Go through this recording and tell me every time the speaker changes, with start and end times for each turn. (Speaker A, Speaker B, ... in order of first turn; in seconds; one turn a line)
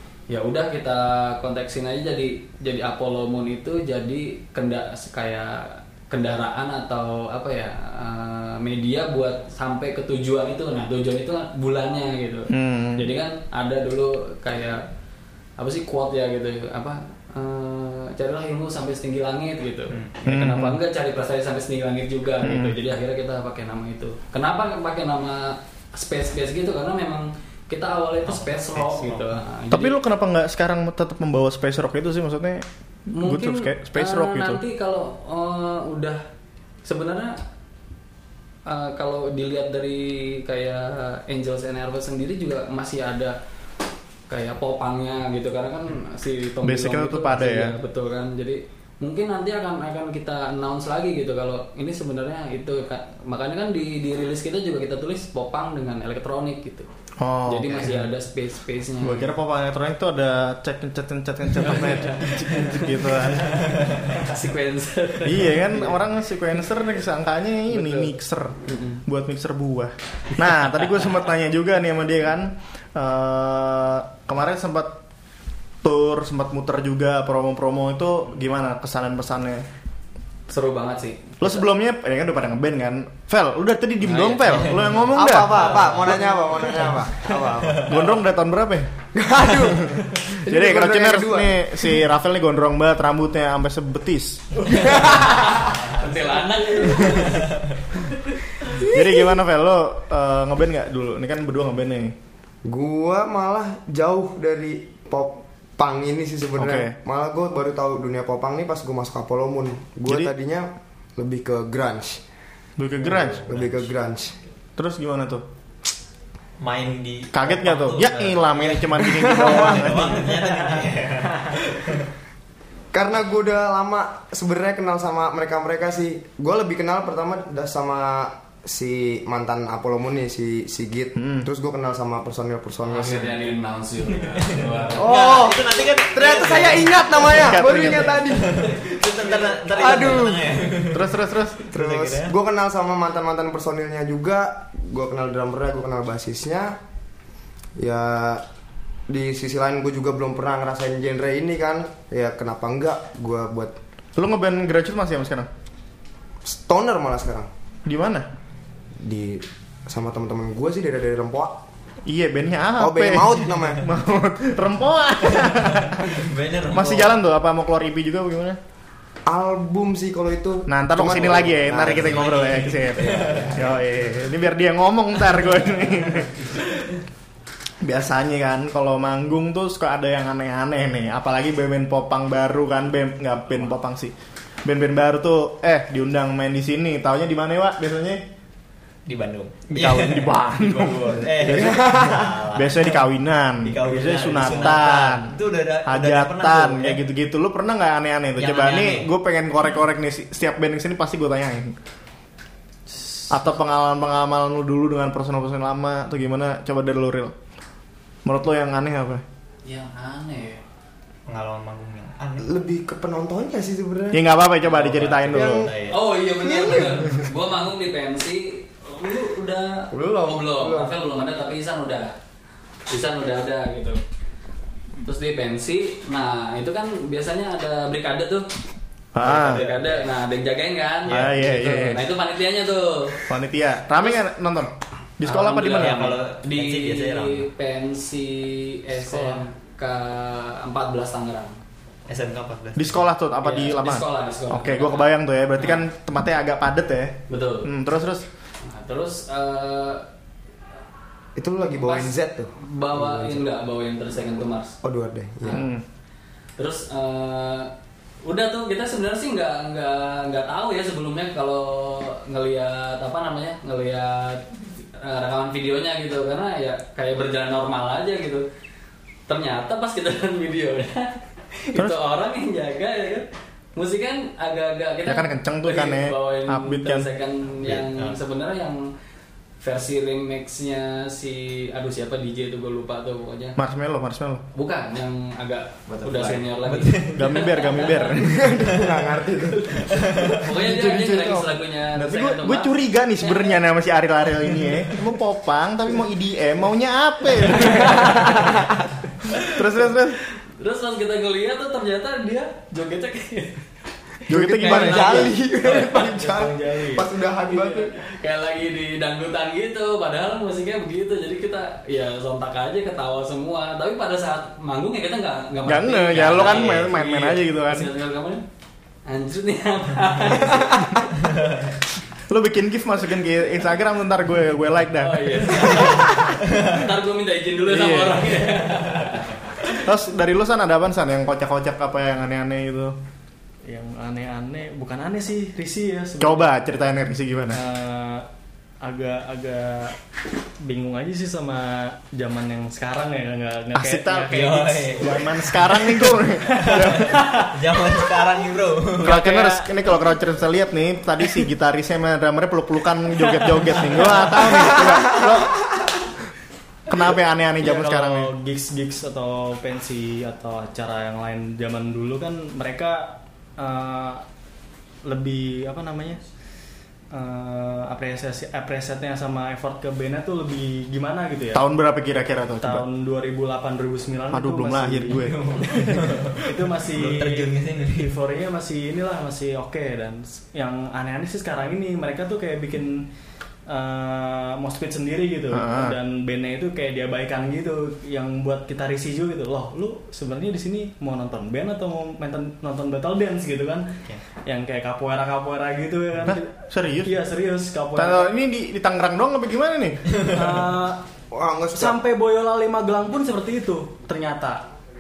Speaker A: 0.3-14.8
Speaker B: 12.5-13.1
Speaker A: 15.6-30.0
Speaker C: 19.9-20.2
Speaker B: 20.3-20.8
Speaker B: 22.4-22.8
Speaker C: 28.3-29.4
Speaker B: 29.7-34.6
Speaker A: 33.1-36.2
Speaker A: 36.9-37.4
Speaker A: 38.7-43.4
Speaker A: 44.3-56.9
Speaker B: 46.6-47.8
Speaker B: 57.2-58.1
Speaker A: 57.5-59.3
Speaker B: 59.0-63.6
Speaker A: 61.6-62.8
Speaker A: 64.1-65.9
Speaker B: 65.2-75.0
Speaker A: 67.7-68.1
Speaker A: 68.7-69.0
Speaker B: 75.8-79.7
Speaker A: 80.5-81.6
Speaker B: 81.4-85.8
Speaker A: 84.0-84.8
Speaker D: 85.1-88.0
Speaker C: 85.5-86.8
Speaker C: 87.5-88.0
Speaker B: 87.9-88.9
Speaker D: 89.1-91.7
Speaker B: 89.6-94.6
Speaker A: 94.9-97.5
Speaker B: 98.8-102.2
Speaker D: 102.7-112.2
Speaker B: 106.6-107.0
Speaker B: 110.1-110.3
Speaker B: 112.8-113.5
Speaker C: 113.2-113.9
Speaker D: 113.5-114.3
Speaker B: 114.8-115.5
Speaker C: 116.6-122.1
Speaker B: 117.3-120.3
Speaker D: 119.1-120.0
Speaker D: 122.9-133.4
Speaker B: 131.2-131.5
Speaker A: 132.8-135.1
Speaker C: 134.1-141.1
Speaker D: 135.0-138.8
Speaker B: 137.3-138.4
Speaker D: 139.7-140.6
Speaker B: 140.9-141.7
Speaker C: 141.7-142.4
Speaker D: 141.7-146.8
Speaker D: 147.8-148.4
Speaker D: 149.1-153.8
Speaker B: 154.2-155.5
Speaker D: 156.4-157.5
Speaker B: 157.9-158.3
Speaker D: 159.0-161.6
Speaker B: 162.1-168.6
Speaker D: 162.8-163.9
Speaker C: 165.8-167.2
Speaker D: 169.3-172.5
Speaker B: 170.7-176.5
Speaker C: 171.8-173.8
Speaker B: 177.8-184.1
Speaker B: 184.7-188.2
Speaker C: 189.1-193.0
Speaker B: 189.7-201.8
Speaker D: 191.5-192.4
Speaker C: 193.6-197.0
Speaker C: 198.4-199.1
Speaker E: 203.0-203.3
Speaker B: 203.3-207.3
Speaker B: 208.2-209.2
Speaker A: 209.7-210.6
Speaker C: 211.3-212.6
Speaker D: 212.4-214.3
Speaker B: 214.1-215.7
Speaker C: 214.6-216.0
Speaker D: 215.3-215.7
Speaker A: 215.9-222.1
Speaker D: 216.4-217.3
Speaker D: 219.9-220.9
Speaker A: 222.9-224.0
Speaker A: 225.0-228.5
Speaker B: 229.2-229.6
Speaker C: 229.2-230.1
Speaker A: 229.2-233.2
Speaker C: 231.1-231.4
Speaker B: 231.1-232.0
Speaker B: 233.3-236.1
Speaker A: 235.2-241.6
Speaker C: 235.7-237.5
Speaker C: 242.1-243.1
Speaker B: 242.8-248.3
Speaker A: 243.4-245.8
Speaker A: 247.3-247.7
Speaker A: 248.6-250.1
Speaker D: 251.4-253.4
Speaker A: 251.7-254.8
Speaker D: 254.8-255.7
Speaker B: 255.5-255.8
Speaker A: 256.6-257.7
Speaker A: 258.2-264.5
Speaker A: 265.0-268.4
Speaker A: 269.3-278.9
Speaker B: 275.1-277.1
Speaker C: 277.6-278.2
Speaker A: 279.6-283.6
Speaker B: 283.6-284.4
Speaker A: 284.5-288.2
Speaker C: 285.9-287.2
Speaker B: 287.1-288.6
Speaker D: 288.2-291.5
Speaker C: 289.9-290.4
Speaker A: 290.3-293.6
Speaker B: 291.9-298.6
Speaker D: 298.3-298.8
Speaker B: 299.4-300.2
Speaker A: 300.6-303.6
Speaker B: 304.3-305.3
Speaker D: 304.3-307.9
Speaker A: 304.7-305.3
Speaker E: 304.9-307.1
Speaker A: 307.5-318.4
Speaker B: 315.7-317.9
Speaker C: 316.3-316.8
Speaker A: 319.1-321.1
Speaker B: 322.3-326.2
Speaker A: 325.0-329.3
Speaker B: 327.7-328.5
Speaker B: 329.7-332.9
Speaker E: 333.6-336.6
Speaker B: 336.2-337.6
Speaker E: 337.5-338.3
Speaker E: 338.8-340.0
Speaker E: 340.6-347.5
Speaker B: 343.7-347.3
Speaker C: 344.3-345.2
Speaker C: 346.6-349.2
Speaker E: 349.0-349.8
Speaker B: 349.0-355.7
Speaker E: 353.9-354.4
Speaker B: 356.9-358.3
Speaker E: 357.6-364.2
Speaker E: 365.1-366.2
Speaker E: 367.1-371.7
Speaker B: 371.5-372.9
Speaker E: 372.6-383.1
Speaker B: 374.3-375.4
Speaker C: 375.2-378.2
Speaker E: 383.7-393.9
Speaker B: 385.5-386.0
Speaker E: 394.4-396.5
Speaker B: 396.2-397.2
Speaker E: 397.0-398.3
Speaker B: 397.9-400.1
Speaker C: 400.1-400.6
Speaker E: 400.3-401.0
Speaker D: 401.3-402.0
Speaker E: 401.7-404.6